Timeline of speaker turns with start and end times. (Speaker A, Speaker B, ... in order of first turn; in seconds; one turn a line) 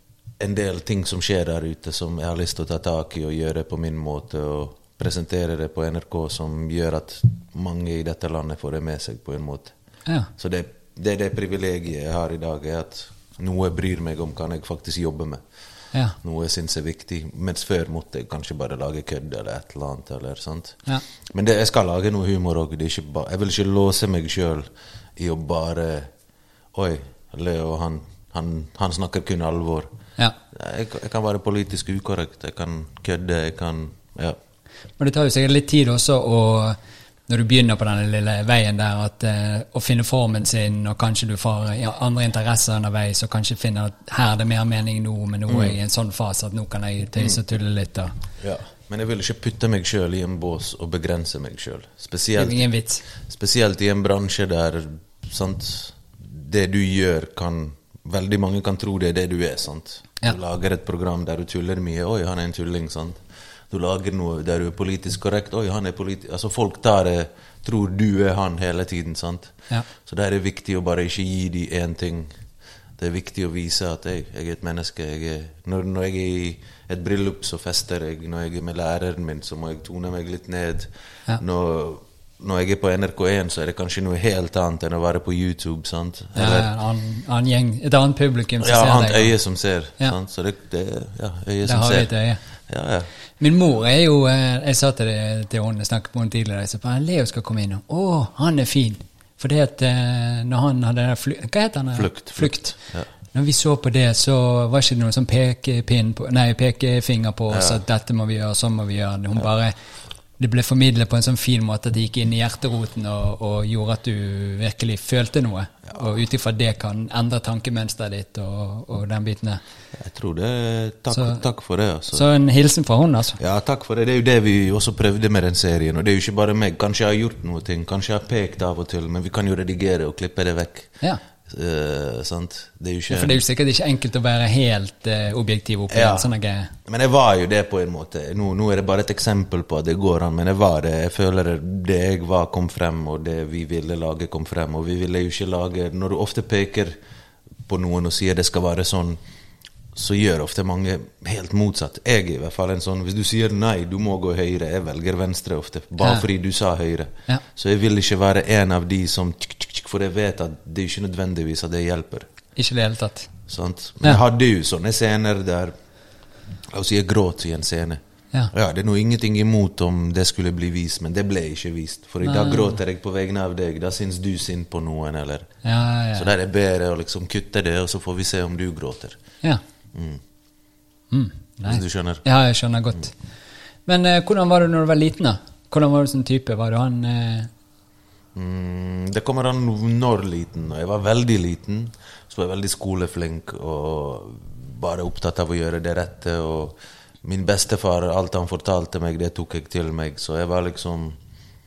Speaker A: 0.4-9.7
Speaker A: 10.4-15.4
Speaker A: 16.2-26.1
Speaker A: 26.7-29.9
Speaker A: 30.5-34.4
Speaker B: 35.0-36.8
Speaker B: 37.3-48.1
Speaker A: 45.5-45.8
Speaker A: 48.4-72.3
Speaker B: 52.4-53.0
Speaker A: 73.0-86.7
Speaker B: 86.4-89.3
Speaker A: 88.6-92.1
Speaker B: 91.7-92.4
Speaker A: 92.7-93.1
Speaker B: 93.4-102.8
Speaker A: 102.0-103.1
Speaker B: 103.3-109.8
Speaker A: 107.5-107.8
Speaker B: 110.4-119.6
Speaker A: 120.0-122.2
Speaker B: 121.1-121.4
Speaker B: 122.1-123.4
Speaker A: 123.4-133.4
Speaker B: 133.1-136.7
Speaker A: 135.9-136.3
Speaker A: 136.8-147.0
Speaker A: 147.7-149.2
Speaker A: 149.9-162.3
Speaker B: 162.6-163.3
Speaker A: 163.5-165.7
Speaker A: 166.7-168.0
Speaker A: 168.5-175.5
Speaker B: 172.2-172.8
Speaker B: 175.6-176.3
Speaker A: 176.2-179.2
Speaker A: 179.9-180.2
Speaker B: 181.1-183.2
Speaker A: 181.6-182.2
Speaker B: 183.9-187.5
Speaker A: 188.3-201.2